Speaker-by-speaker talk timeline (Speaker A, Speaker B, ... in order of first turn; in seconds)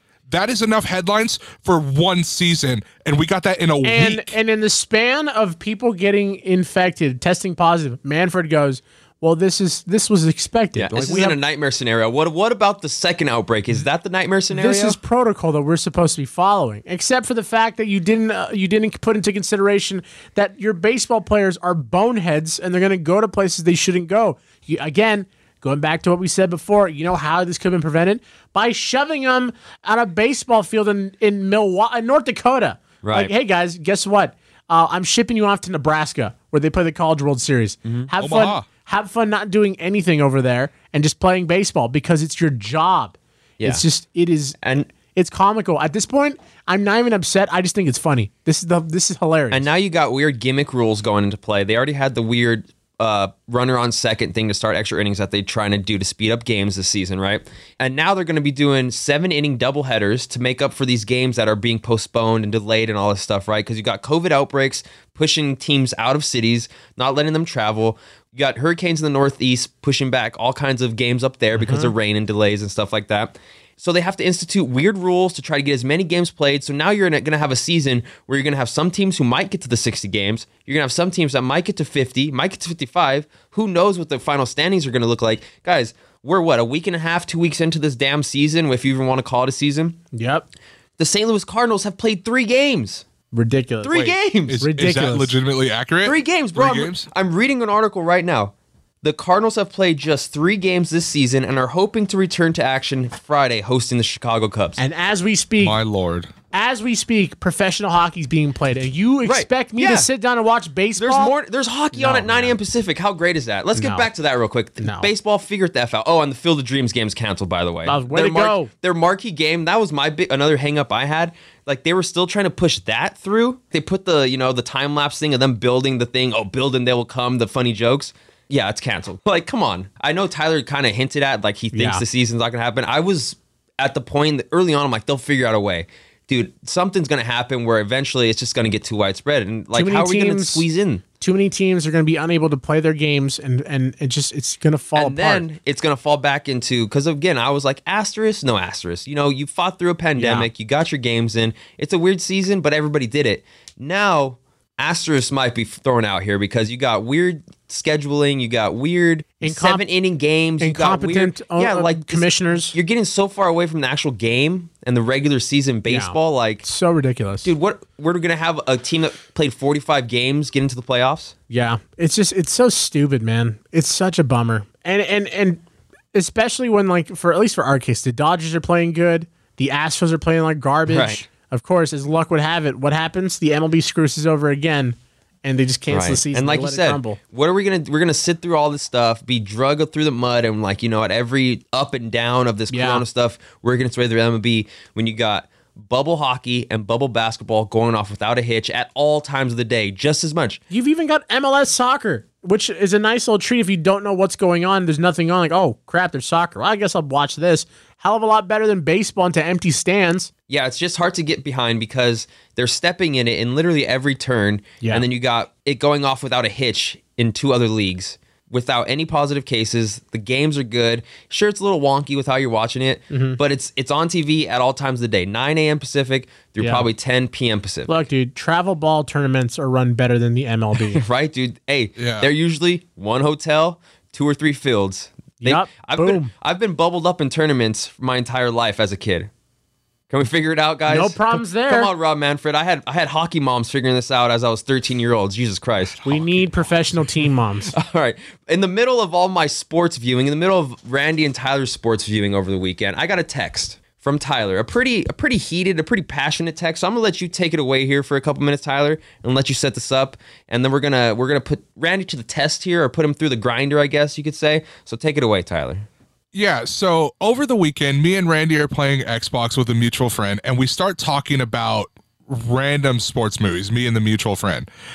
Speaker A: 0.3-4.3, 38.2-38.6, 93.9-97.1, 105.6-106.3, 232.0-232.3, 245.9-246.6, 266.3-274.7
Speaker B: 3.8-11.4, 14.5-44.6, 45.1-49.7, 71.5-71.9, 90.1-90.5, 93.3-94.0, 94.6-95.3, 104.8-105.8, 106.5-111.3, 111.9-112.6, 113.8-114.1, 114.8-115.1, 117.8-118.7, 131.7-132.0, 139.7-140.6, 141.2-145.4, 150.2-150.5, 159.4-159.8, 160.6-162.7, 165.8-167.5, 171.5-175.6, 176.1-187.2, 192.7-193.0, 200.7-210.3, 223.1-223.4, 226.6-226.9, 227.9-231.0, 235.4-236.3, 240.9-241.9, 246.0-247.7
Speaker C: 10.7-15.0, 33.0-33.3, 44.6-44.9, 49.5-90.0, 91.0-93.0, 93.8-94.6, 96.0-104.8, 109.2-110.1, 111.0-141.0, 144.9-166.6, 167.4-171.3, 180.9-181.2, 185.9-200.6, 210.5-227.9, 230.8-239.3, 240.1-246.0, 247.7-265.9